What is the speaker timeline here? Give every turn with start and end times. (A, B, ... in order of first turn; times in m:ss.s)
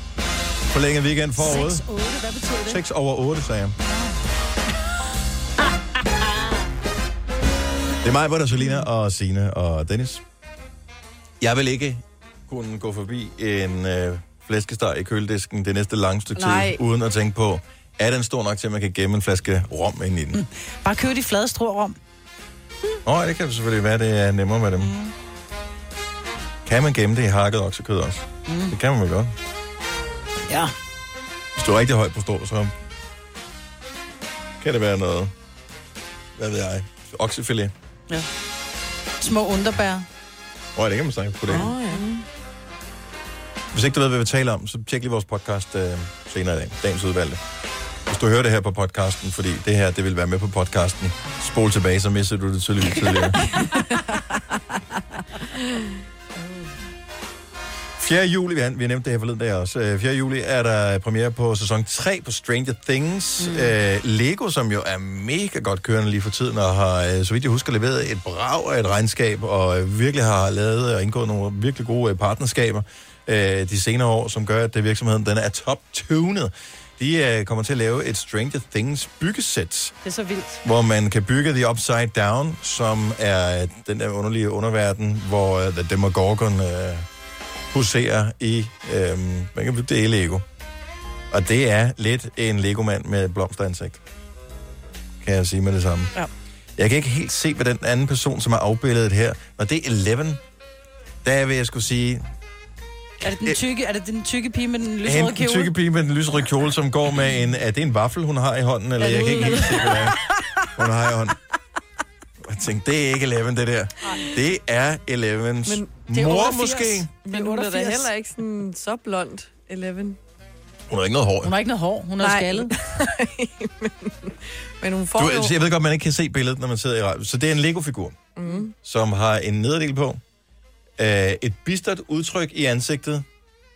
0:00.7-0:01.8 A
0:01.4-0:02.8 B
0:02.7-0:03.8 A
0:08.0-0:10.2 A
0:11.4-0:20.4 A
0:16.4-0:16.8 C
0:20.3-0:22.0 B
0:23.0-0:24.9 A
0:24.8-0:25.1 B
0:26.6-0:29.3 A
0:28.5-0:28.8 B
0:31.6-0:32.7 A
0:34.6-0:35.3 A
0:36.4-0:37.7 A
0:39.2-0:40.1 B
0:40.8-0:41.7 A
0:41.5-0:42.0 C
0:43.7-0:47.4 A
0:48.1-0:53.5 A
0:58.0-1:20.0 A
1:20.0-1:20.6 B
1:20.6-1:27.1 A
1:27.7-1:30.4 A
1:31.3-1:34.0 A
1:35.2-1:36.1 A
1:36.8-1:40.4 A
1:41.2-1:42.2 A
1:43.2-1:45.7 B
1:45.0-1:50.2 A
1:49.0-1:50.0 B
1:49.0-1:49.5 C
1:50.7-1:51.4 A
1:52.4-1:57.1 A
1:55.7-1:55.9 C
1:56.1-1:58.1 B
1:57.2-2:00.2 C
2:00.9-2:01.5 A
2:01.4-2:02.7 B
2:02.2-2:05.6 C
2:05.2-2:10.2 A
2:08.4-2:08.7 C
2:11.0-2:13.2 A